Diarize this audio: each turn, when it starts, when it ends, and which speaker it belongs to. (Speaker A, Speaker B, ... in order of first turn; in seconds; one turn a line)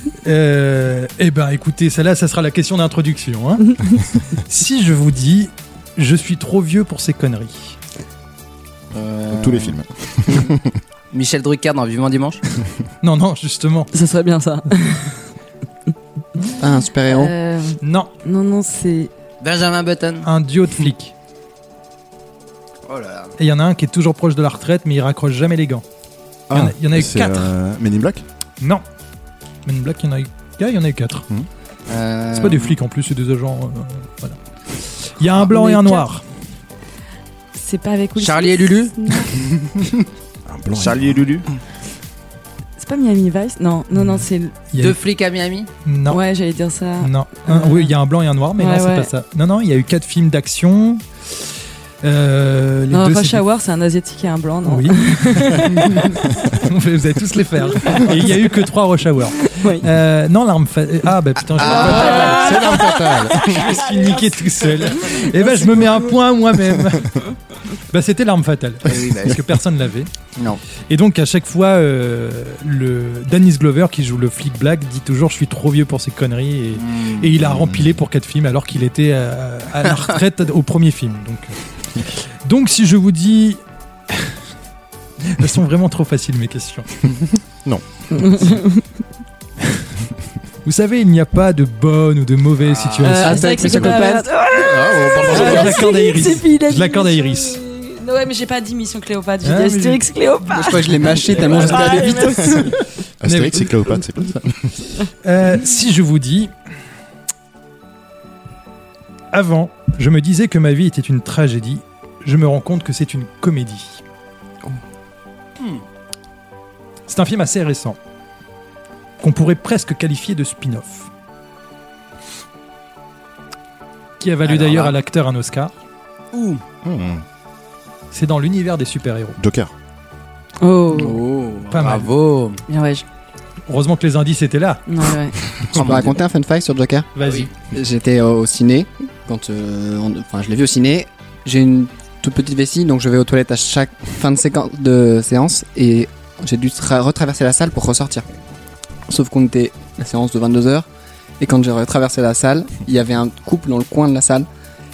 Speaker A: 0.2-3.8
Speaker A: 4.3-7.8
Speaker B: 9.0-10.8
Speaker C: 9.0-9.7
Speaker C: 11.1-12.4
Speaker A: 13.0-13.9
Speaker D: 13.9-15.2
Speaker E: 16.6-17.3
Speaker D: 17.1-19.1
Speaker A: 17.8-18.1
Speaker C: 19.4-20.2
Speaker A: 20.2-21.1
Speaker C: 22.9-23.3
Speaker A: 23.4-25.8
Speaker B: 26.5-28.2
Speaker A: 26.5-27.5
Speaker A: 29.6-31.3
Speaker C: 31.9-32.8
Speaker A: 32.3-34.4
Speaker A: 35.0-36.2
Speaker D: 35.4-36.0
Speaker D: 37.5-39.3
Speaker C: 38.2-38.9
Speaker B: 40.5-41.3
Speaker C: 40.8-41.4
Speaker D: 42.8-44.6
Speaker A: 43.9-45.0
Speaker C: 44.8-45.7
Speaker A: 45.9-46.2
Speaker D: 46.1-47.9
Speaker A: 47.0-51.0
Speaker D: 48.6-49.1
Speaker A: 52.0-53.4
Speaker D: 52.9-56.4
Speaker A: 54.6-62.8
Speaker D: 57.8-58.3
Speaker D: 59.4-59.9
Speaker B: 61.6-63.7
Speaker C: 61.6-62.3
Speaker D: 61.7-64.2
Speaker A: 63.3-70.1
Speaker D: 65.1-65.5
Speaker C: 68.9-69.4
Speaker A: 70.9-84.3
Speaker C: 76.8-77.2
Speaker B: 77.4-77.9
Speaker A: 85.2-86.9
Speaker B: 87.6-88.4
Speaker D: 88.1-88.8
Speaker A: 90.6-93.5
Speaker C: 92.6-93.1
Speaker D: 93.0-102.8
Speaker E: 93.1-94.3
Speaker B: 93.6-95.8
Speaker A: 95.3-97.6
Speaker A: 99.4-100.0
Speaker E: 100.5-102.8
Speaker A: 101.4-102.2
Speaker B: 103.2-104.8
Speaker A: 103.2-103.7
Speaker A: 105.2-106.5
Speaker A: 109.3-114.0
Speaker A: 117.1-118.0
Speaker A: 119.2-121.1
Speaker A: 124.2-125.7
Speaker C: 124.4-125.0
Speaker C: 126.3-126.6
Speaker B: 126.8-127.2
Speaker A: 128.1-129.4
Speaker B: 129.4-129.7
Speaker D: 130.6-131.2
Speaker E: 130.9-131.6
Speaker C: 131.0-132.6
Speaker A: 131.7-132.1
Speaker D: 132.7-133.0
Speaker A: 133.7-134.8
Speaker D: 134.9-135.4
Speaker C: 135.7-136.2
Speaker E: 135.7-137.1
Speaker A: 137.1-137.5
Speaker E: 137.7-148.2
Speaker E: 149.1-150.9
Speaker E: 151.4-154.4